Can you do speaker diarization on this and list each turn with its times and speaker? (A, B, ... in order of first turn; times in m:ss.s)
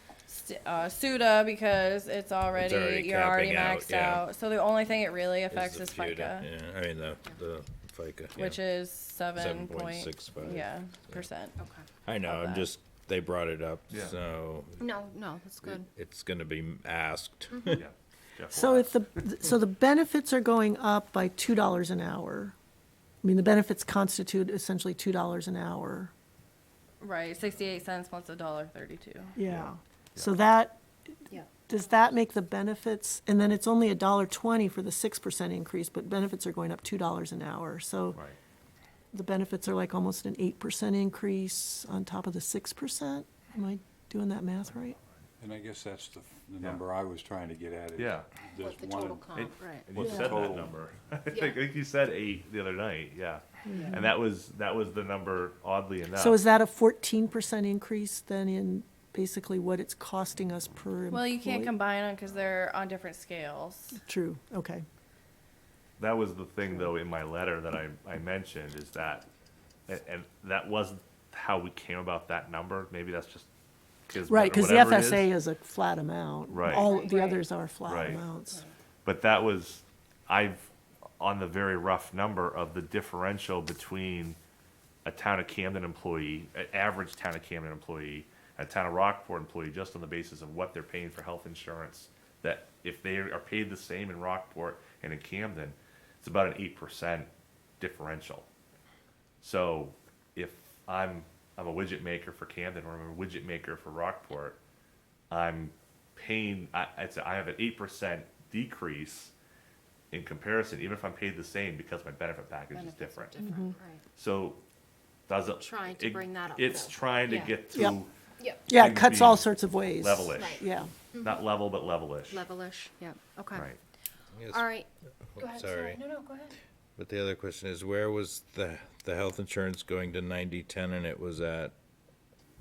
0:00.3-0:06.5 A
0:02.6-0:04.3 B
0:05.5-0:08.6 B
0:08.4-0:11.6 A
0:09.2-0:11.3 B
0:11.6-0:11.8 C
0:12.0-0:15.0 B
0:12.2-0:12.7 A
0:13.9-0:14.2 D
0:14.8-0:15.9 C
0:15.6-0:17.8 B
0:17.7-0:19.0 D
0:18.5-0:22.5 E
0:23.2-0:26.1 E
0:27.0-0:29.4 A
0:29.4-0:30.8 E
0:29.5-0:30.4 D
0:31.6-0:38.2 E
0:39.1-0:45.0 E
0:45.4-0:50.8 F
0:48.0-0:48.3 D
0:48.6-0:49.9 C
0:49.4-0:56.4 D
0:50.0-0:50.4 E
0:51.3-0:51.6 C
0:53.7-0:54.1 E
0:53.7-0:54.0 C
0:56.2-1:01.8 E
1:01.1-1:04.0 A
1:04.0-1:04.8 E
1:06.0-1:09.3 D
1:09.9-1:13.5 D
1:14.1-1:15.3 D
1:14.3-1:18.6 E
1:16.5-1:16.9 D
1:16.6-1:17.5 C
1:17.8-1:18.2 D
1:19.0-1:24.4 D
1:25.0-1:38.5 D
1:39.4-1:44.6 D
1:45.3-1:49.3 D
1:50.1-1:53.4 D
1:52.7-1:54.0 C
1:53.4-1:53.7 E
1:54.1-1:54.6 D
1:55.3-1:58.1 D
1:55.5-1:57.6 C
1:58.7-2:00.9 E
1:58.7-2:00.6 D
2:00.4-2:01.4 C
2:01.2-2:02.4 D
2:02.3-2:03.7 C
2:03.5-2:03.8 D
2:04.3-2:04.7 B
2:04.5-2:06.6 C
2:05.3-2:06.1 B
2:07.0-2:11.8 B